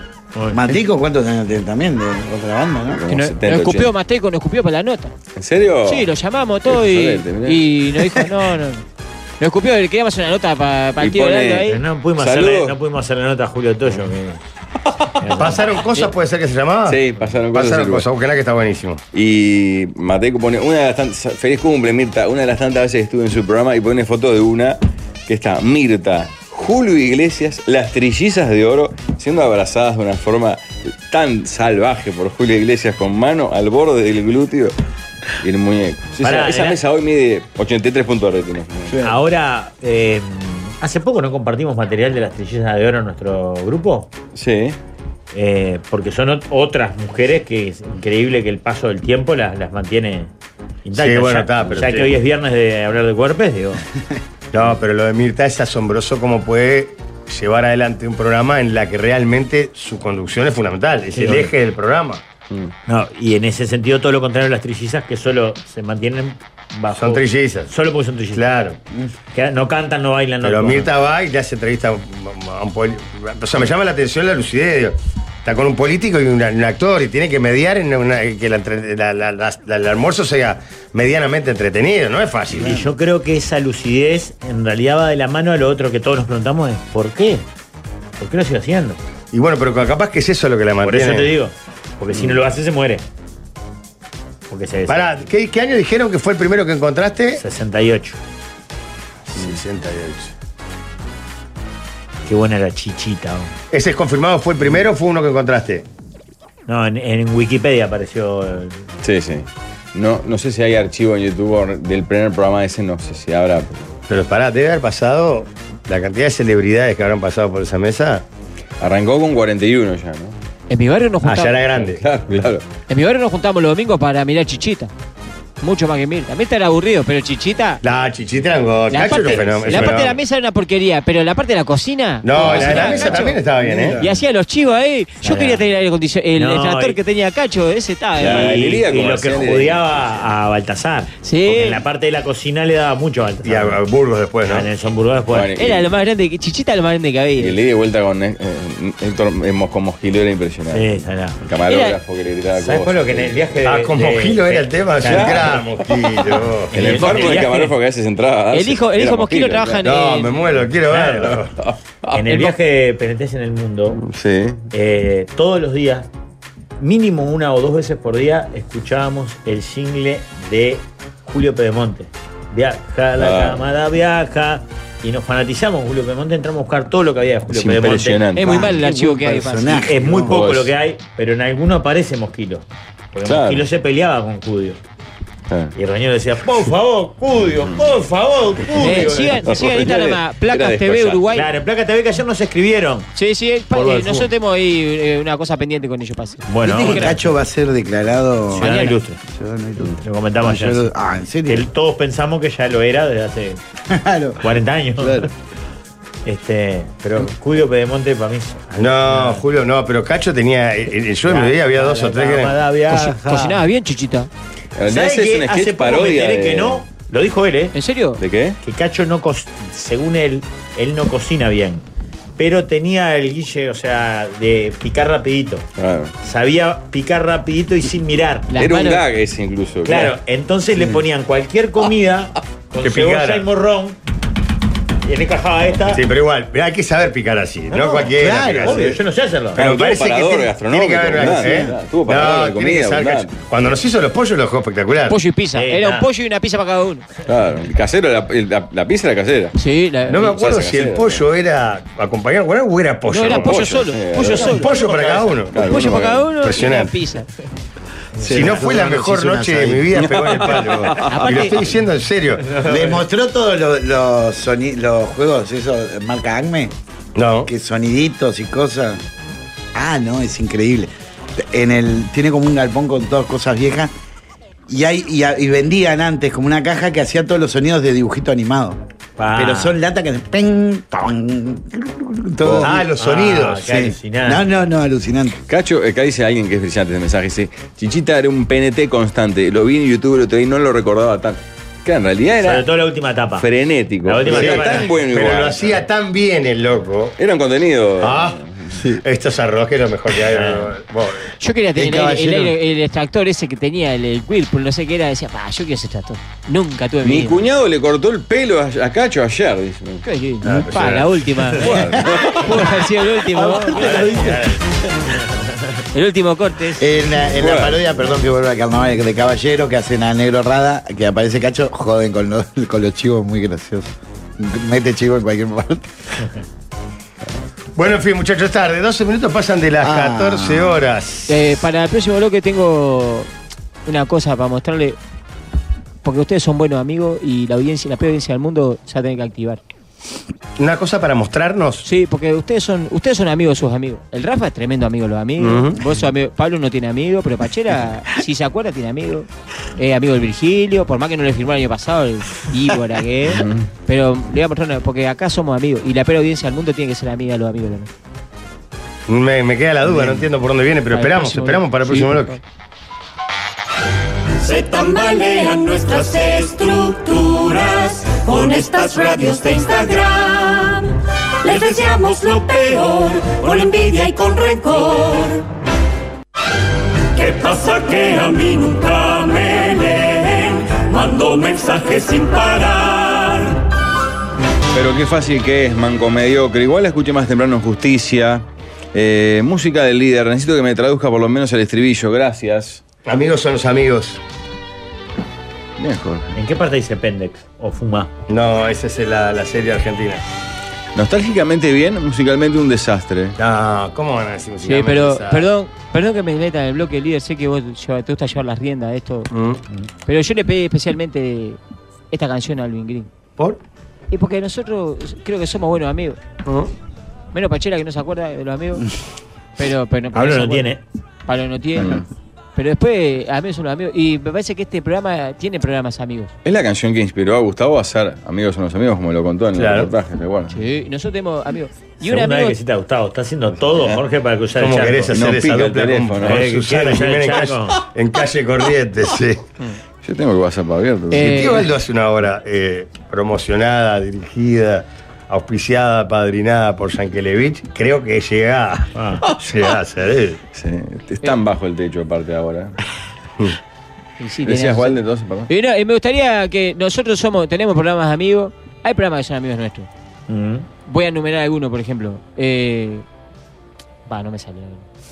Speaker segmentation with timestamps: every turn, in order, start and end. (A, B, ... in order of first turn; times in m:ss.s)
0:00.4-0:00.6 A
0:00.5-0:03.0 B
0:02.9-0:03.9 C
0:03.1-0:05.1 D
0:05.4-0:06.1 C
0:05.8-0:08.8 D
0:06.7-0:07.7 C
0:09.4-0:11.8 D
0:11.0-0:12.8 C
0:11.7-0:14.4 A
0:15.2-0:15.6 A
0:15.4-0:19.0 E
0:16.9-0:18.1 C
0:19.1-0:34.7 C
0:35.4-0:39.1 C
0:36.2-0:36.8 A
0:39.0-0:44.1 A
0:44.3-0:44.8 C
0:45.3-0:50.3 A
0:50.8-0:53.8 A
0:51.0-0:52.2 E
0:54.5-1:02.2 E
1:01.1-1:01.5 A
1:02.9-1:08.4 A
1:07.0-1:07.7 E
1:08.4-1:08.8 E
1:09.3-1:10.9 A
1:10.4-1:22.9 E
1:22.6-1:27.4 A
1:28.2-1:29.0 A
1:29.3-1:31.4 E
1:30.8-1:33.0 A
1:34.5-1:35.2 A
1:34.9-1:37.4 E
1:37.4-1:38.2 A
1:39.3-1:40.3 E
1:42.3-1:43.5 A
1:43.7-1:45.8 E
1:46.7-1:48.8 A
1:49.0-1:53.9 C
1:54.1-1:58.2 E
1:58.8-2:00.4 C
2:00.7-2:01.6 D
2:01.2-2:02.0 E
2:01.8-2:02.6 C
2:02.9-2:04.9 D
2:05.6-2:07.8 D
2:07.8-2:10.2 E
2:08.9-2:13.4 D
2:09.3-2:09.8 A
2:12.2-2:14.0 E
2:12.4-2:13.0 C
2:12.4-2:13.3 A
2:14.0-2:18.6 D
2:15.2-2:15.6 A
2:16.4-2:17.0 A
2:18.2-2:20.2 C
2:18.2-2:23.8 A
2:21.2-2:21.8 D
2:23.4-2:24.7 E
2:24.5-2:25.5 A
2:25.3-2:25.9 C
2:25.6-2:27.6 D
2:27.4-2:33.4 C
2:30.7-2:31.4 A
2:31.7-2:32.0 D
2:32.6-2:35.4 A
2:33.6-2:37.2 E
2:35.0-2:39.8 C
2:36.7-2:37.7 A
2:38.5-2:40.4 D
2:39.8-2:41.5 E
2:40.9-2:41.4 A
2:41.2-2:42.5 C
2:42.1-2:44.0 A
2:44.0-2:44.6 C
2:44.7-2:46.1 A
2:46.8-2:58.2 A
2:53.2-2:53.6 C
2:57.5-2:58.7 C
2:58.3-2:59.9 D
2:58.4-3:00.4 B
2:59.8-3:04.8 A
3:00.2-3:00.7 C
3:03.2-3:03.7 C
3:05.8-3:09.5 A
3:08.8-3:11.5 D
3:09.4-3:11.2 C
3:11.3-3:13.1 A
3:13.2-3:17.1 D
3:13.7-3:14.3 A
3:16.5-3:17.2 A
3:16.6-3:18.7 B
3:18.6-3:19.2 A
3:18.6-3:19.0 D
3:19.3-3:21.7 B
3:20.0-3:20.9 A
3:21.5-3:23.6 A
3:23.9-3:25.3 B
3:24.4-3:25.2 A
3:26.2-3:29.4 A
3:28.8-3:32.6 E
3:31.3-3:33.6 A
3:32.9-3:34.3 D
3:34.8-3:36.8 C
3:34.9-3:37.8 A
3:37.7-3:38.2 D
3:38.2-3:38.6 C
3:38.6-3:41.8 A
3:42.4-3:45.7 A
3:45.8-3:46.1 C
3:46.2-3:48.5 A
3:48.5-3:49.0 D
3:48.6-3:50.2 C
3:49.8-3:54.0 A
3:50.7-3:51.0 B
3:52.8-3:53.5 E
3:55.0-3:56.0 A
3:55.9-3:59.0 E
3:57.7-3:59.6 A
3:58.2-3:59.0 B
3:59.5-4:05.2 E
3:59.6-4:03.4 C
4:01.2-4:01.7 B
4:05.1-4:07.0 D
4:05.6-4:06.1 A
4:07.3-4:09.6 C
4:09.6-4:10.3 D
4:10.1-4:13.6 E
4:10.1-4:11.3 C
4:13.1-4:14.7 D
4:13.2-4:14.5 C
4:14.4-4:15.8 E
4:14.5-4:15.4 A
4:15.5-4:16.3 C
4:15.6-4:17.3 D
4:16.4-4:17.0 E
4:18.2-4:19.9 B
4:18.2-4:18.6 C
4:18.2-4:22.5 E
4:20.0-4:21.5 C
4:21.1-4:21.6 D
4:22.4-4:23.0 A
4:22.6-4:26.7 B
4:27.2-4:27.5 E
4:27.5-4:29.0 B
4:29.7-4:33.9 B
4:34.7-4:38.8 B
4:39.2-4:39.8 A
4:39.4-4:42.8 B
4:42.6-4:43.7 E
4:42.6-4:44.4 A
4:43.6-4:45.4 B
4:45.5-4:52.7 C
4:52.4-4:53.5 A
4:53.4-4:55.8 C
4:54.0-4:54.9 A
4:54.3-4:57.2 E
4:57.2-4:58.8 C
4:58.0-4:58.4 E
4:59.0-5:01.3 E
5:00.3-5:00.7 A
5:01.4-5:07.4 D
5:01.8-5:02.5 B
5:07.0-5:10.0 C
5:10.0-5:14.2 D
5:10.4-5:11.3 E
5:11.6-5:12.8 C
5:11.7-5:12.0 B
5:13.4-5:14.4 B
5:13.8-5:14.6 A
5:15.2-5:15.6 A
5:15.9-5:16.9 D
5:16.8-5:25.9 B
5:17.4-5:17.8 C
5:27.8-5:31.4 E
5:29.8-5:30.8 B
5:31.3-5:33.3 D
5:33.9-5:35.0 D
5:36.0-5:39.6 D
5:40.6-5:41.9 E
5:41.8-5:57.9 D
5:45.4-5:45.8 E
5:53.3-5:53.7 C
5:59.1-6:02.4 E
6:00.9-6:02.4 D
6:04.4-6:15.4 F
6:17.2-6:23.6 F
6:24.7-6:32.8 C
6:33.1-6:34.2 E
6:35.8-6:36.3 C
6:36.3-6:38.1 A
6:38.3-6:40.2 E
6:41.0-6:43.4 C
6:43.4-6:45.5 E
6:44.6-6:49.3 D
6:49.3-6:49.6 E
6:50.1-6:51.6 D
6:52.1-6:53.1 D
6:54.1-6:56.2 D
6:56.4-6:56.7 E
6:57.3-6:58.9 D
6:59.6-7:00.7 D
7:00.1-7:00.8 A
7:01.3-7:02.0 D
7:01.8-7:02.0 C
7:02.6-7:06.3 D
7:06.4-7:10.6 C
7:09.6-7:09.9 E
7:10.5-7:12.6 D
7:12.0-7:15.1 A
7:14.6-7:19.4 E
7:15.1-7:16.6 C
7:16.2-7:17.8 A
7:20.0-7:21.6 C
7:21.1-7:21.7 D
7:21.2-7:30.4 E
7:29.0-7:29.2 A
7:30.5-7:32.8 C
7:34.2-7:39.9 D
7:34.4-7:35.5 C
7:40.3-7:40.7 A
7:40.8-7:43.0 D
7:44.1-7:44.8 D